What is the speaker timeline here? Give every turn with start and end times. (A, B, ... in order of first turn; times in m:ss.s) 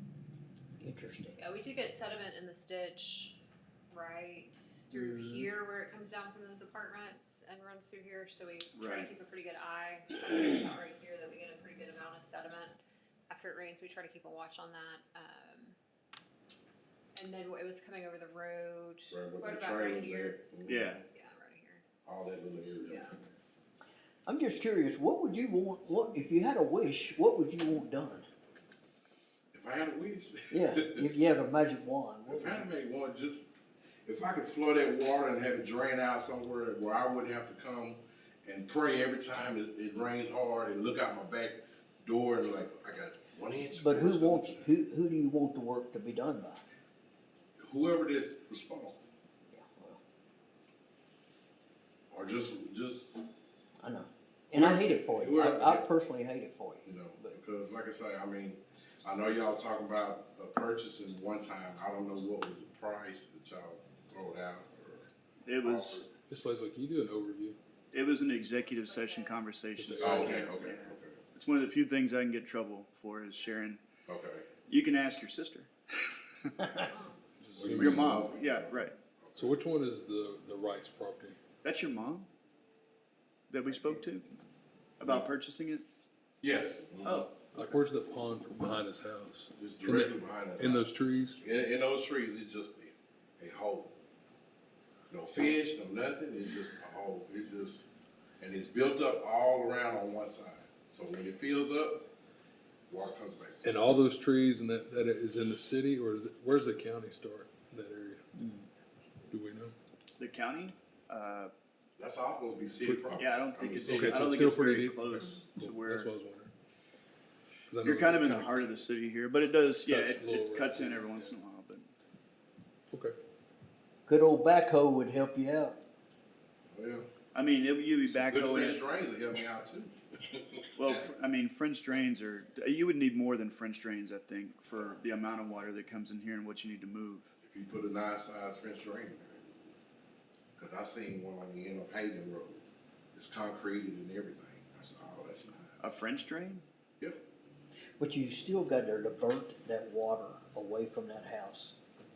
0:00.8-0:01.4 A
0:01.4-0:03.3 B
0:03.9-0:12.8 B
0:04.9-0:05.5 A
0:08.7-0:09.1 C
0:13.3-0:15.8 B
0:17.1-0:20.4 B
0:19.1-0:20.9 D
0:20.7-0:21.0 C
0:21.0-0:21.8 B
0:22.0-0:23.2 D
0:22.8-0:23.3 B
0:24.2-0:28.3 A
0:29.5-0:31.1 D
0:30.5-0:32.7 A
0:32.3-0:33.5 D
0:34.0-0:44.7 D
0:43.7-0:46.6 A
0:47.6-0:49.0 D
0:49.5-0:50.0 A
0:52.1-0:53.2 D
0:53.8-0:57.3 A
0:54.5-0:55.9 D
0:56.8-1:05.1 D
1:05.4-1:06.1 C
1:05.6-1:06.1 D
1:06.3-1:07.6 E
1:07.9-1:13.8 C
1:08.8-1:09.4 B
1:09.8-1:10.5 E
1:10.0-1:11.2 D
1:14.0-1:14.6 D
1:14.6-1:16.5 C
1:16.8-1:17.2 B
1:17.4-1:18.3 E
1:17.6-1:19.6 D
1:17.8-1:19.0 C
1:19.4-1:21.4 E
1:21.6-1:22.3 C
1:23.5-1:24.3 C
1:25.0-1:25.8 C
1:26.4-1:27.3 D
1:27.0-1:27.8 C
1:27.5-1:31.4 E
1:29.6-1:33.9 D
1:35.1-1:37.9 D
1:38.4-1:42.0 D
1:42.9-1:43.9 D
1:43.6-1:48.2 E
1:48.4-1:48.6 A
1:49.3-1:49.7 E
1:50.2-1:51.5 C
1:52.0-1:54.4 D
1:52.8-1:56.5 E
1:53.2-1:56.1 C
1:57.7-1:58.6 E
1:57.8-2:01.9 C
1:59.8-2:01.1 E
2:02.9-2:03.2 E
2:04.1-2:05.8 A
2:06.7-2:07.1 D
2:07.3-2:08.8 C
2:08.0-2:11.0 D
2:10.8-2:17.3 C
2:17.4-2:19.5 D
2:20.6-2:22.6 D
2:23.1-2:25.9 D
2:25.8-2:26.6 C
2:28.0-2:31.7 A